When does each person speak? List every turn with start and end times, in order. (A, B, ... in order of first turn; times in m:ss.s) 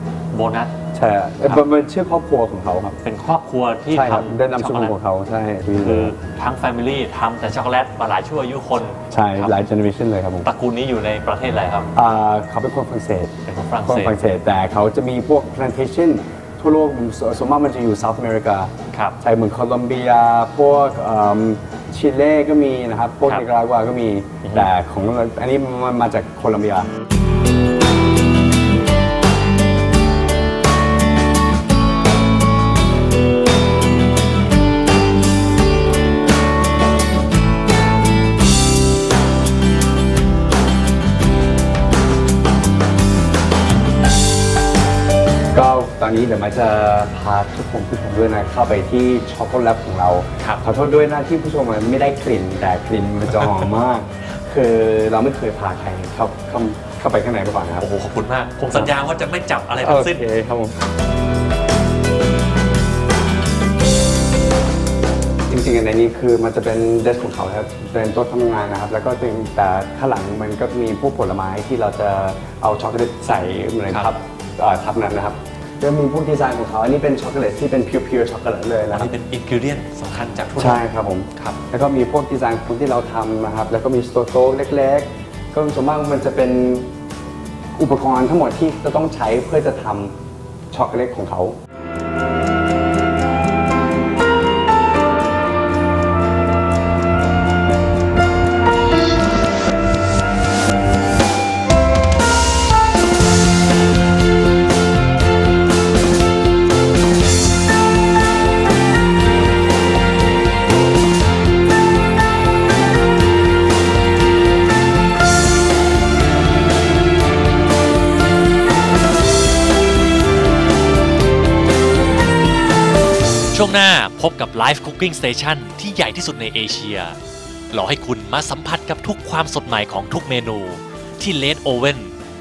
0:00.3-0:00.7 A
0:00.9-0:03.0 B
0:03.0-0:04.9 A
0:03.9-0:06.1 B
0:05.8-0:09.6 A
0:09.1-0:10.5 B
0:10.4-0:11.9 A
0:11.9-0:13.3 B
0:13.4-0:14.2 A
0:13.8-0:26.9 B
0:18.9-0:19.2 A
0:24.4-0:24.7 A
0:45.5-0:57.9 B
0:57.8-1:00.2 A
0:59.8-1:00.8 B
1:05.5-1:19.1 B
1:18.9-1:20.8 A
1:20.6-1:26.9 B
1:27.8-1:30.2 B
1:30.7-1:31.6 B
2:03.5-2:07.2 A
2:07.7-2:12.1 A